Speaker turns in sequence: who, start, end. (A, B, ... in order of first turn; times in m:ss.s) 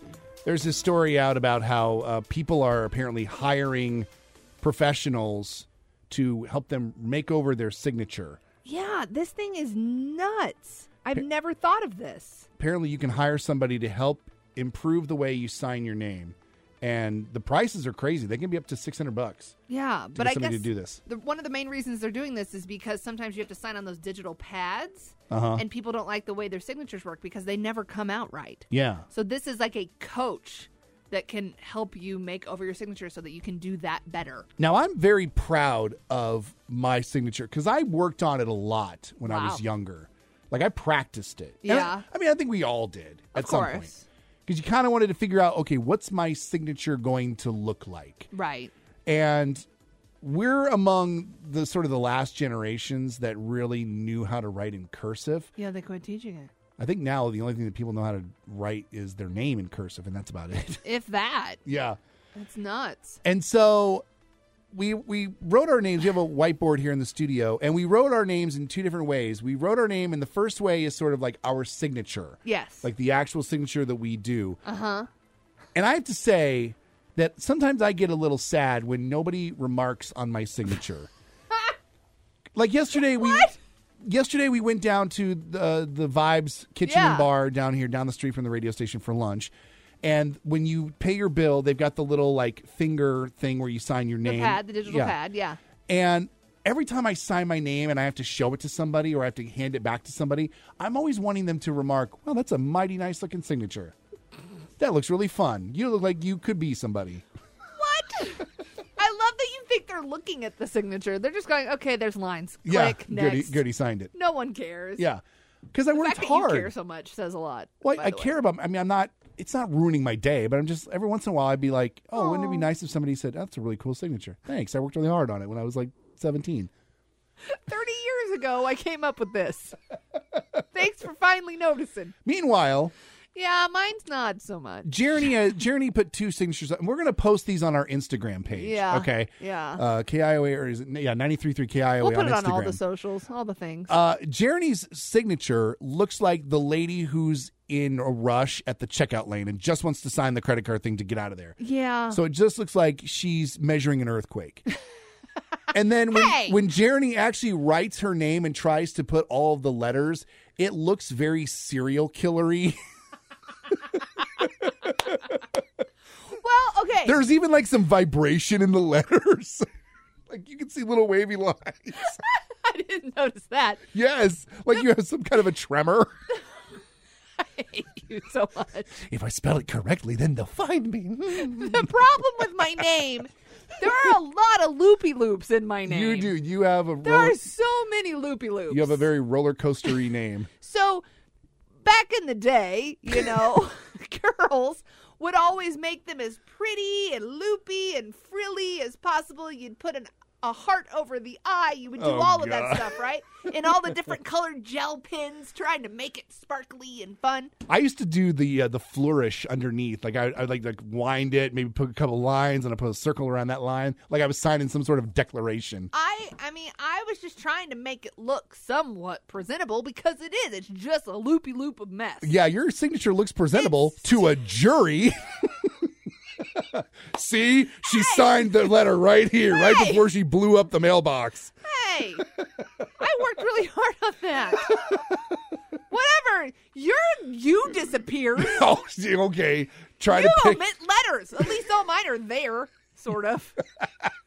0:00.4-0:04.1 A
0:04.6-0:08.4 A
0:08.6-0:12.5 B
0:12.6-0:19.6 A
0:19.7-0:34.5 B
0:20.2-0:21.0 A
0:25.3-0:25.6 A
0:28.7-0:29.1 A
0:34.6-0:43.9 A
0:39.2-0:39.6 B
0:41.6-0:42.0 B
0:43.4-0:44.1 B
0:44.5-0:48.3 A
0:48.3-0:48.7 B
0:49.1-0:49.7 A
0:50.2-0:55.5 A
0:55.6-0:56.5 B
0:56.8-1:00.8 A
1:00.8-1:01.6 B
1:01.7-1:02.0 A
1:02.4-1:03.2 B
1:03.2-1:04.0 A
1:04.7-1:14.6 A
1:12.4-1:12.9 B
1:14.6-1:15.1 B
1:15.8-1:21.1 A
1:22.6-1:23.5 A
1:23.0-1:23.6 B
1:24.0-1:35.2 A
1:26.8-1:27.3 B
1:34.2-1:35.6 B
1:35.9-1:44.0 A
1:44.8-1:47.2 A
1:47.8-1:55.1 B
1:52.6-1:54.1 A
1:55.7-1:56.7 A
1:55.9-1:58.4 B
1:57.8-2:06.7 A
2:02.2-2:02.7 B
2:07.5-2:09.8 B
2:10.7-2:12.1 B
2:12.2-2:12.9 A
2:13.3-2:15.0 B
2:14.8-2:22.8 A
2:18.5-2:19.8 B
2:22.0-2:24.0 B
2:23.9-2:31.6 A
2:31.6-2:32.2 B
2:32.1-2:34.7 A
2:35.7-2:42.8 A
2:36.0-2:36.6 B
2:46.3-2:47.2 B
2:47.0-2:49.6 A
2:50.3-2:52.2 A
2:52.1-2:53.8 B
2:53.9-2:56.2 A
2:57.4-2:59.0 B
2:59.0-3:02.0 A
3:01.3-3:06.4 B
3:05.8-3:07.4 A
3:07.0-3:09.0 B
3:08.7-3:10.5 A
3:10.6-3:11.1 B
3:11.8-3:27.5 B
3:22.0-3:23.0 A
3:27.7-3:35.9 A
3:35.9-3:42.4 B
3:42.2-3:45.5 A
3:43.5-3:44.3 B
3:46.4-3:51.5 A
3:47.9-3:48.7 B
3:49.4-3:50.1 B
3:51.6-3:52.3 B
3:53.0-3:54.9 B
3:55.9-3:58.7 B
3:58.4-4:00.7 A
4:00.1-4:03.6 B